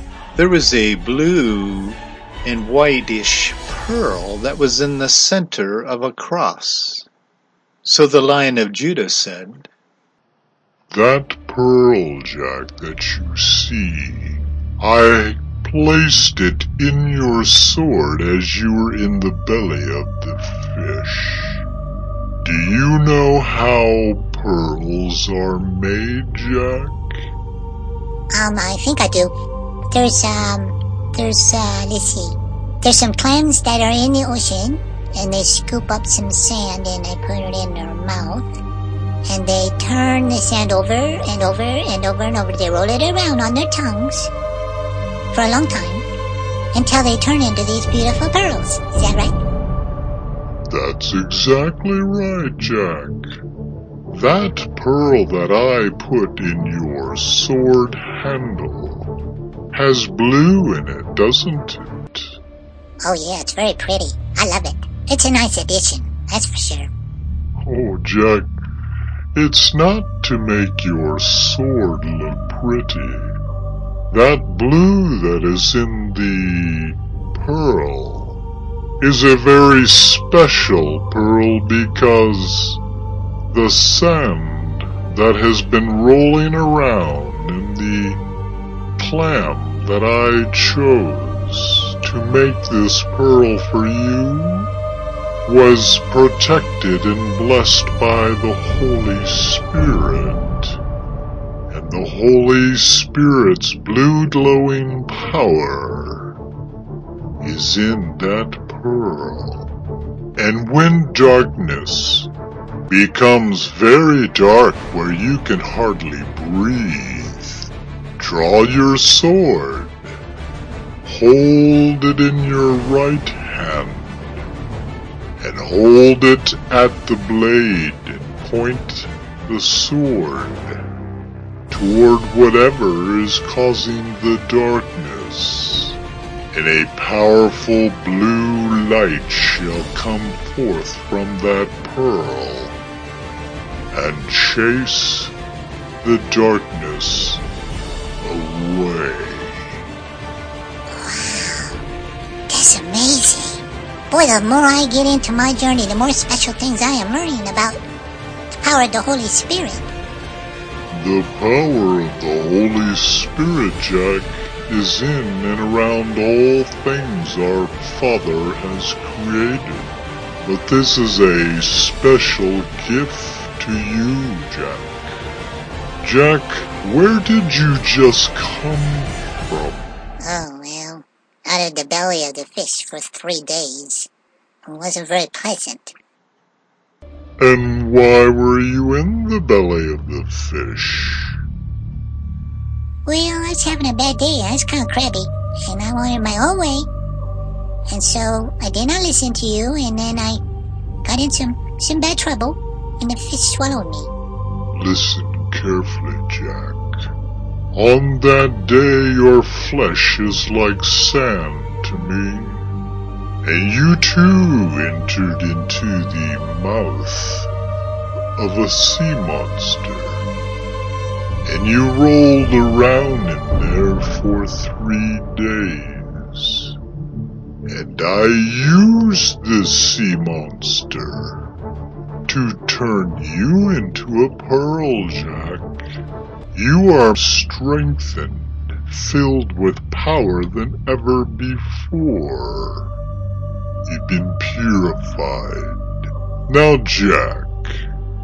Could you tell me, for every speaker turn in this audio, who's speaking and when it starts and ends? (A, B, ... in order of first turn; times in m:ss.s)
0:00.4-0:07.1 A
0:07.8-0:09.7 A
0:10.9-0:21.6 B
0:22.4-0:27.2 B
0:28.3-0:29.3 C
0:29.9-0:38.5 C
0:39.3-0:44.3 C
0:45.3-0:46.1 C
0:46.7-0:49.4 C
0:50.7-0:53.4 B
0:54.1-0:59.2 B
0:59.7-1:02.4 B
1:03.0-1:06.9 C
1:07.6-1:08.6 B
1:09.4-1:13.4 B
1:14.1-1:18.4 B
1:19.0-1:22.8 B
1:23.5-1:28.2 B
1:29.0-1:34.7 B
1:35.5-1:40.8 B
1:41.7-1:46.4 B
1:47.4-1:49.7 B
1:50.4-1:52.3 B
1:52.9-2:00.1 B
2:01.0-2:04.4 B
2:05.4-2:10.8 B
2:11.7-2:16.0 B
2:16.5-2:22.8 B
2:23.9-2:25.3 B
2:26.0-2:27.4 B
2:28.2-2:29.8 B
2:30.9-2:31.8 C
2:32.5-2:37.8 C
2:38.6-2:39.9 C
2:40.9-2:55.1 B
2:56.0-3:00.0 B
3:00.2-3:04.1 C
3:04.7-3:06.0 C
3:07.4-3:11.4 B
3:13.1-3:16.9 C
3:17.9-3:20.4 C
3:21.0-3:24.1 C
3:24.8-3:27.1 B
3:27.7-3:32.7 B
3:33.4-3:37.5 B
3:38.4-3:40.2 B
3:41.4-3:46.8 B
3:47.7-3:51.5 B
3:52.3-3:55.9 B
3:56.5-4:02.9 B
4:03.9-4:05.8 B
4:06.5-4:07.8 B